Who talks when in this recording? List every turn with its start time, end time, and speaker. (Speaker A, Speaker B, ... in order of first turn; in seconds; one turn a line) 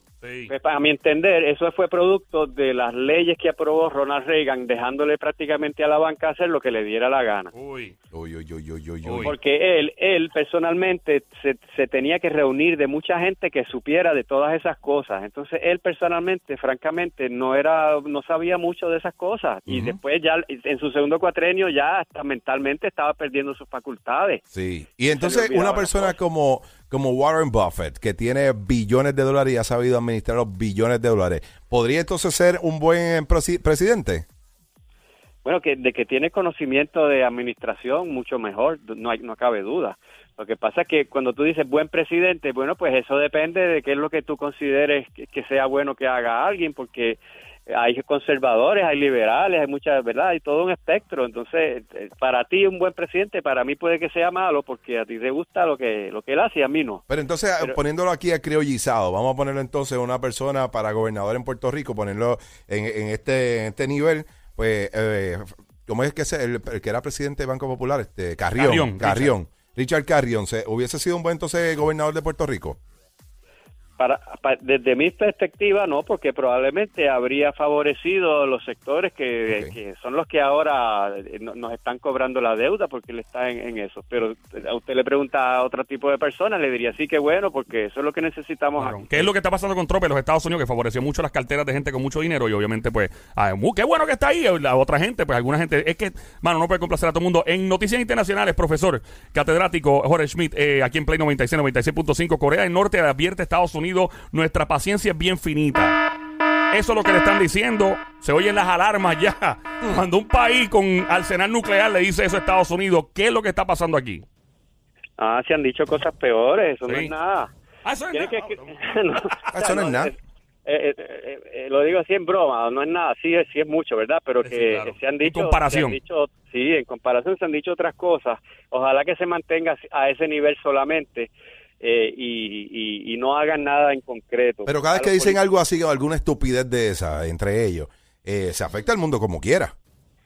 Speaker A: 0.2-0.5
Speaker B: 0.5-7.5
Speaker A: 7.5-7.9
Speaker C: 8.1-9.3
Speaker A: 9.0-9.3
Speaker B: 9.2-24.4
Speaker C: 19.7-20.0
Speaker C: 24.5-34.2
Speaker B: 25.1-26.2
Speaker B: 35.4-57.0
Speaker C: 57.1-72.8
Speaker A: 68.6-69.3
Speaker B: 74.0-89.0
Speaker C: 79.5-79.8
Speaker A: 88.8-106.0
Speaker A: 106.7-114.2
Speaker B: 115.2-117.5
Speaker A: 116.9-117.1
Speaker A: 117.8-118.8
Speaker B: 118.1-120.1
Speaker C: 119.5-120.1
Speaker B: 120.6-135.4
Speaker A: 124.4-126.0
Speaker C: 134.7-139.7